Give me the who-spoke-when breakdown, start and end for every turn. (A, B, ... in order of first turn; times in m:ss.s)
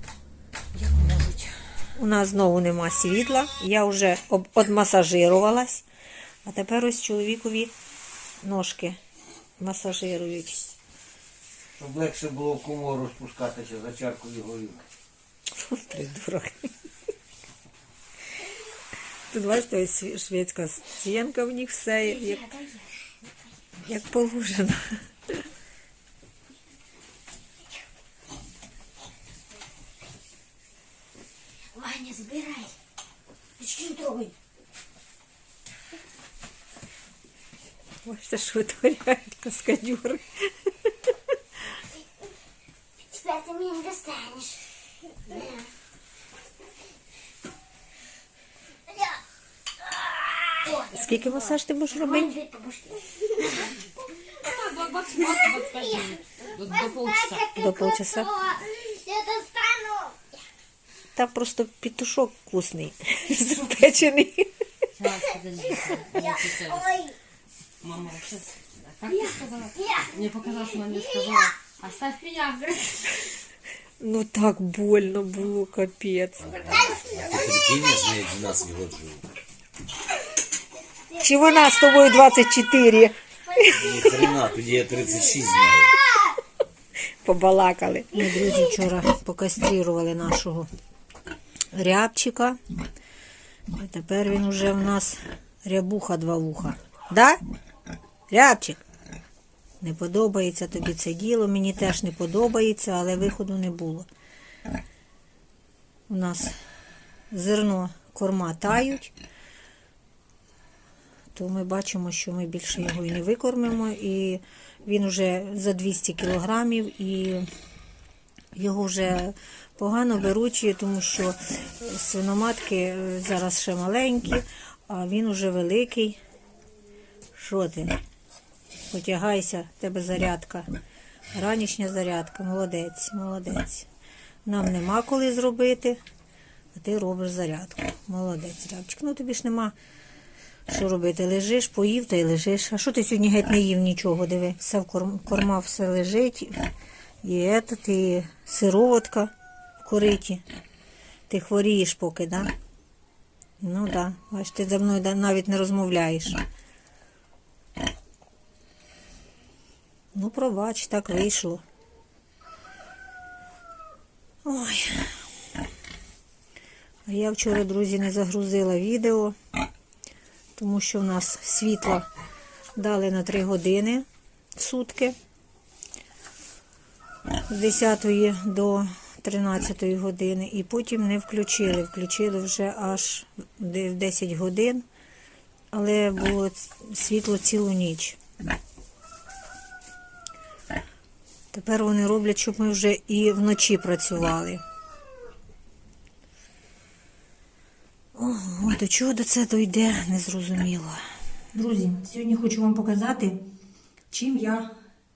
0:00.7-0:05.9 A
0:06.4-0:07.7 A
0:08.4-0:09.0 A
0:09.6-0:10.8 A
0:11.8-0:14.8 B
0:15.6-0:16.7 A
0:19.3-0:22.6 A
0:22.3-0:22.8 C
0:23.8-0:25.4 A
0:31.7-0:32.8 C
0:33.6-0:34.3 C
0:38.0-0:40.9 A
0:43.1-0:45.7 C
0:48.9-0:49.2 C
0:50.1-0:51.1 C
0:50.8-0:52.4 A
0:52.1-0:53.7 C
0:54.4-0:57.5 D
0:55.3-0:55.9 C
0:56.9-1:00.2 C
0:57.6-0:58.3 A
1:01.2-1:04.5 A
1:05.0-1:06.9 D
1:06.1-1:07.2 C
1:07.8-1:12.6 D
1:14.0-1:16.7 A
1:16.5-1:19.3 E
1:21.1-1:24.0 A
1:23.7-1:26.0 E
1:27.2-1:30.7 A
1:31.7-1:32.6 A
1:33.7-1:37.4 A
1:38.3-1:38.8 A
1:39.8-1:44.1 A
1:46.1-1:46.6 A
1:47.3-1:49.1 A
1:51.3-1:57.5 A
1:58.5-2:06.2 A
2:07.4-2:08.0 A
2:08.9-2:10.7 A
2:11.3-2:13.9 A
2:14.4-2:16.0 A
2:16.7-2:19.8 A
2:20.7-2:26.7 A
2:27.2-2:30.4 A
2:31.3-2:32.5 A
2:33.6-2:36.4 A
2:40.1-2:41.6 A
2:44.4-2:45.2 A
2:47.1-2:49.4 A
2:50.6-2:52.1 A
2:52.8-2:54.1 A
2:54.6-2:55.2 A
2:57.5-3:04.8 A
3:05.7-3:08.2 A
3:11.5-3:14.6 A
3:18.2-3:21.0 A
3:21.5-3:23.4 A
3:24.1-3:24.7 A